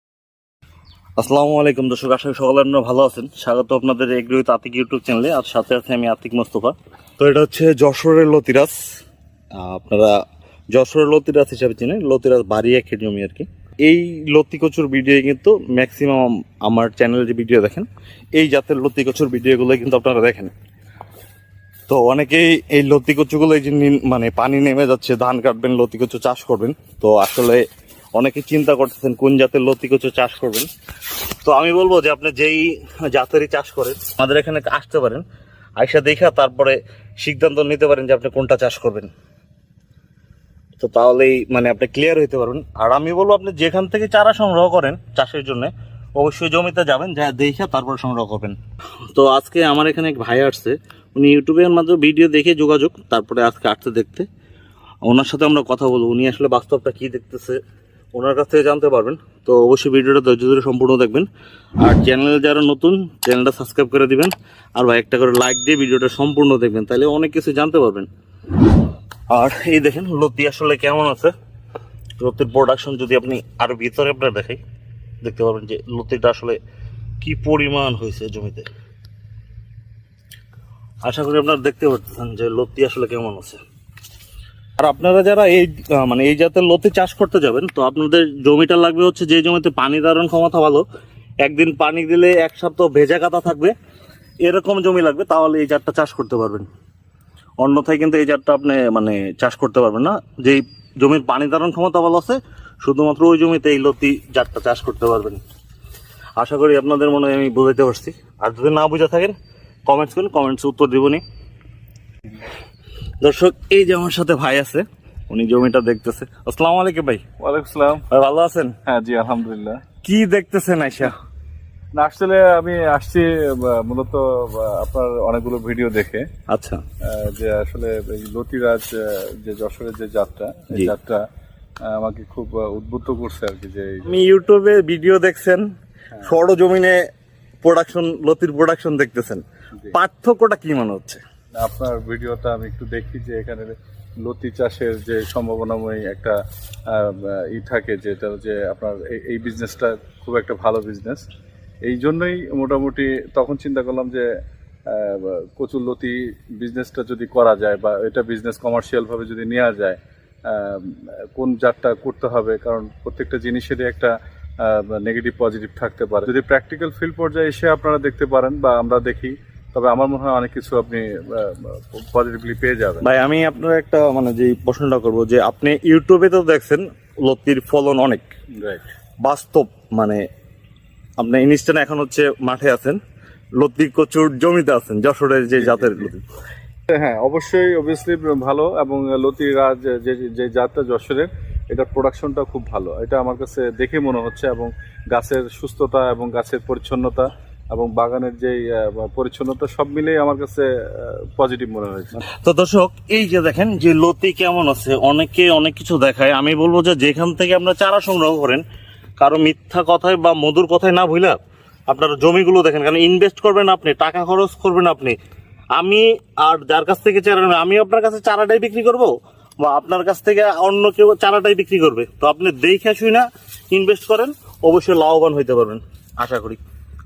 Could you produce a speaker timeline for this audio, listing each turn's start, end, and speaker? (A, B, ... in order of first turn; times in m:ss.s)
0:01.2-0:08.8 A
0:09.6-0:10.2 A
0:10.7-0:20.5 A
0:21.9-0:27.6 A
0:28.2-0:30.7 A
0:31.4-0:35.2 A
0:35.8-0:39.1 A
0:40.8-0:48.6 A
0:49.1-0:54.3 A
0:55.0-0:57.6 A
0:58.1-1:01.3 A
1:01.8-1:08.1 A
1:09.3-1:11.3 A
1:12.2-1:14.6 A
1:15.2-1:16.6 A
1:17.2-1:18.7 A
1:21.0-1:23.6 A
1:24.8-1:30.8 A
1:31.4-1:33.7 A
1:34.4-1:36.7 A
1:37.6-1:45.4 A
1:46.4-1:51.2 A
1:53.2-1:57.2 A
1:57.4-1:58.0 B
1:58.1-1:58.7 A
1:58.8-1:59.8 B
2:00.0-2:01.2 A
2:01.9-2:06.3 B
2:06.5-2:06.8 A
2:07.0-2:11.2 B
2:11.8-2:14.1 B
2:14.0-2:15.6 A
2:16.2-2:17.0 A
2:17.6-2:21.2 A
2:21.6-2:26.4 B
2:26.9-2:31.2 B
2:31.8-2:34.2 B
2:34.9-2:53.0 B
2:53.0-2:58.3 A
2:59.2-3:00.2 A
3:01.2-3:03.0 A
3:03.6-3:06.2 A
3:05.6-3:06.1 B
3:06.9-3:22.1 B
3:22.4-3:28.6 A
3:29.2-3:35.2 A
3:35.7-3:46.6 A